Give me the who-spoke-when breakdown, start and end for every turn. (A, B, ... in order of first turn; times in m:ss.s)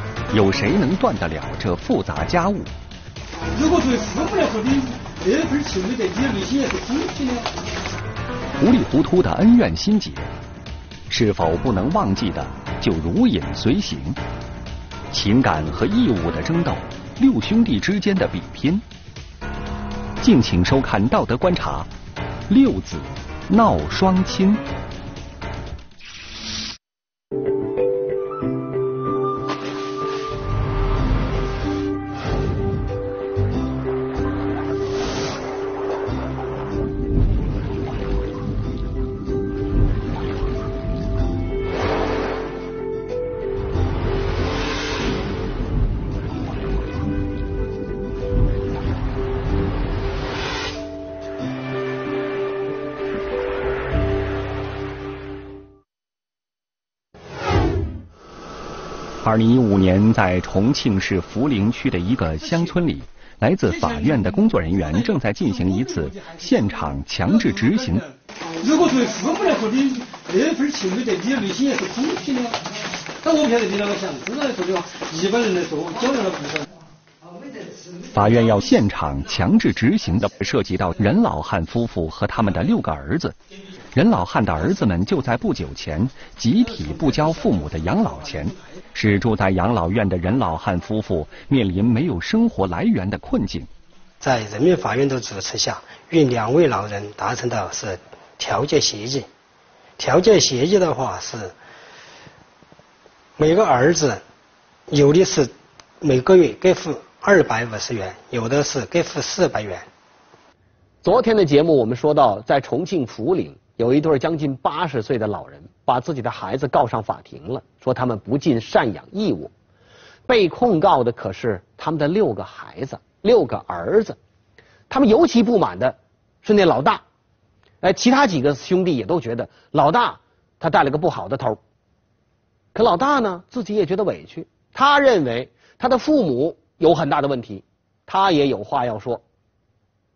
0:00.3-0:02.7 A
0:03.6-0:04.6 B
0:03.7-0:07.5 C
0:06.8-0:07.1 B
0:08.6-0:10.3 A
0:11.1-0:14.2 A
0:15.1-0:18.8 A
0:20.2-0:21.9 A
0:22.5-0:24.6 A
0:59.2-1:08.0 A
1:03.7-1:06.7 C
1:07.3-1:07.9 C
1:08.6-1:12.5 B
1:10.4-1:12.4 C
1:13.2-1:14.7 C
1:14.0-1:16.6 B
1:15.2-1:16.6 C
1:18.1-1:23.4 A
1:24.0-1:33.7 A
1:34.2-1:39.3 B
1:40.0-1:41.5 B
1:43.4-1:44.2 B
1:44.9-1:49.9 B
1:51.0-1:59.5 D
2:00.3-2:04.2 D
2:04.9-2:07.0 D
2:07.8-2:11.6 D
2:12.8-2:19.2 D